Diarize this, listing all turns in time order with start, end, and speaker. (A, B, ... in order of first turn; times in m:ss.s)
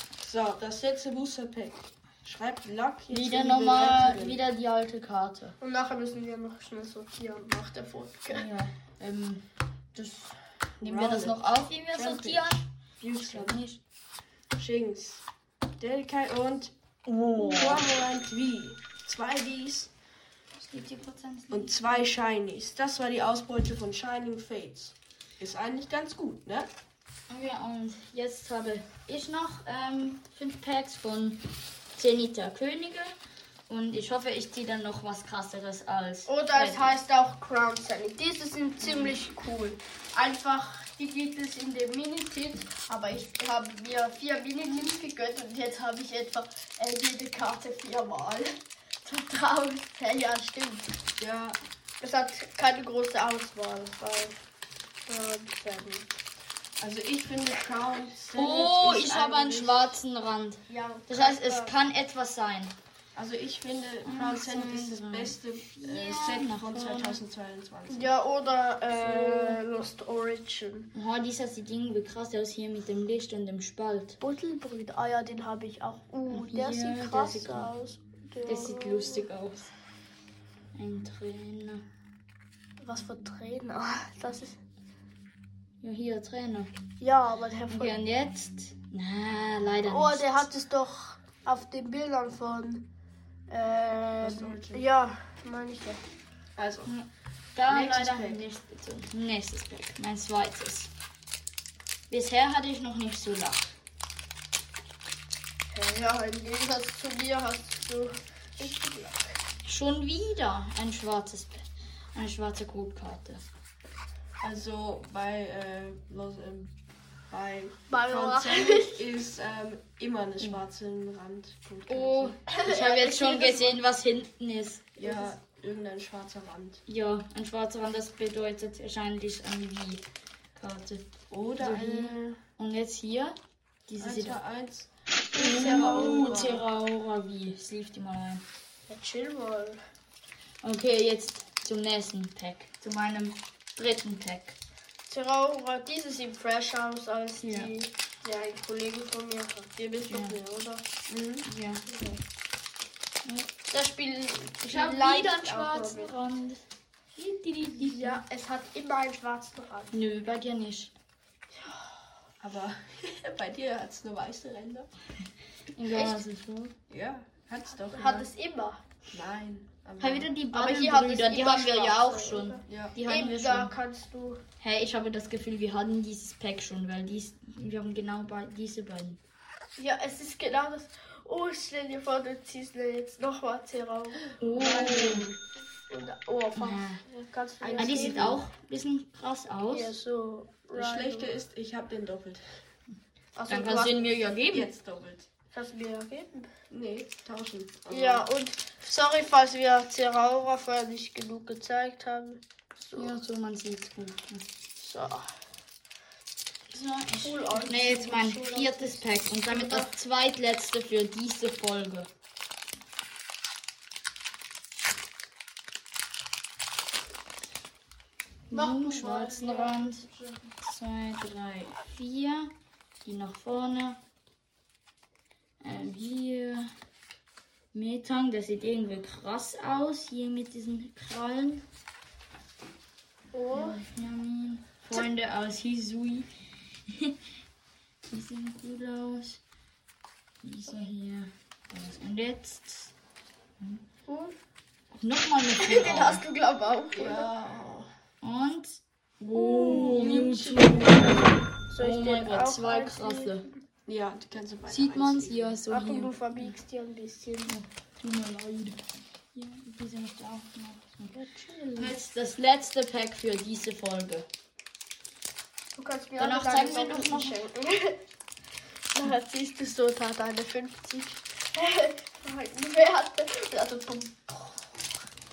0:00.2-0:04.4 A
0:03.1-0:05.6 B
0:05.6-0:08.5 C
0:08.3-0:13.8 B
0:10.8-0:13.6 A
0:14.6-0:15.2 A
0:15.8-0:19.9 A
0:17.1-0:17.8 B
0:20.5-0:22.0 B
0:21.5-0:26.7 A
0:27.3-0:33.1 B
0:33.7-0:37.0 B
0:36.2-0:48.5 C
0:38.8-0:39.2 B
0:44.6-0:45.0 B
0:49.0-0:51.0 C
0:51.2-0:51.6 A
0:52.0-0:54.4 C
0:55.1-0:56.1 C
0:56.8-0:59.9 A
0:58.3-1:02.7 B
1:00.7-1:01.7 C
1:03.1-1:08.1 A
1:04.0-1:07.2 B
1:07.9-1:10.9 C
1:08.9-1:09.6 A
1:10.9-1:14.2 B
1:14.2-1:19.3 C
1:16.3-1:17.7 B
1:18.4-1:19.7 B
1:20.7-1:21.8 B
1:22.8-1:24.6 C
1:25.8-1:26.7 B
1:27.0-1:28.0 C
1:27.7-1:30.5 B
1:29.9-1:32.9 C
1:33.5-1:36.0 C
1:34.2-1:34.8 A
1:36.6-1:36.9 A
1:36.8-1:40.9 B
1:37.7-1:38.4 A
1:42.1-1:43.7 B
1:45.7-1:49.4 C
1:49.6-1:53.4 B
1:54.4-1:56.7 A
1:57.3-2:02.4 A
1:57.9-1:59.0 C
2:01.9-2:05.3 B
2:02.5-2:03.8 C
2:05.0-2:06.8 A
2:06.9-2:14.4 B
2:11.3-2:12.4 A
2:14.0-2:16.6 A
2:15.3-2:18.4 B
2:15.3-2:16.5 C
2:18.9-2:19.8 C
2:20.6-2:24.6 B
2:25.1-2:30.8 C
2:27.4-2:27.7 B
2:30.0-2:30.4 B
2:31.1-2:31.4 A
2:31.4-2:31.8 B
2:31.9-2:32.2 C
2:33.2-2:33.5 B
2:33.7-2:36.1 C
2:34.6-2:38.2 B
2:37.7-2:40.0 C
2:39.9-2:40.9 B
2:42.4-2:44.9 A
2:45.7-2:46.7 B
2:45.9-2:46.2 C
2:46.9-2:48.3 A
2:47.9-2:48.8 C
2:49.1-2:50.3 A
2:50.0-2:53.7 B
2:50.5-2:54.4 C
2:52.7-2:52.9 A
2:54.6-2:59.2 B
2:59.8-3:08.4 C
3:04.4-3:05.3 B
3:04.6-3:05.2 A
3:06.6-3:07.0 B
3:07.6-3:08.4 A
3:07.8-3:09.9 B
3:09.7-3:11.3 C
3:10.7-3:12.4 A
3:13.4-3:14.1 C
3:13.5-3:14.7 B
3:14.5-3:15.3 A
3:15.5-3:16.5 C
3:16.7-3:18.3 A
3:17.9-3:23.2 C
3:22.9-3:24.5 B
3:24.8-3:25.3 C
3:26.7-3:32.1 B
3:27.2-3:29.9 C
3:38.5-3:40.1 B
3:38.5-3:40.1 C
3:40.6-3:44.0 B
3:45.6-3:46.7 B
3:47.7-3:51.6 B
3:53.3-3:53.8 C
3:53.5-3:56.3 B
3:56.9-3:57.2 B
3:58.1-3:59.4 B
4:00.4-4:02.9 B
4:04.1-4:04.4 C
4:05.0-4:06.2 B
4:05.6-4:07.3 C
4:06.9-4:07.9 A
4:08.2-4:13.5 B
4:09.3-4:13.5 C
4:13.8-4:15.6 A
4:14.7-4:16.5 B
4:15.7-4:17.6 C
4:17.5-4:18.8 B
4:19.3-4:21.2 B
4:21.1-4:22.0 C
4:21.7-4:24.3 B
4:25.8-4:28.0 C
4:26.2-4:27.4 B
4:28.9-4:34.9 C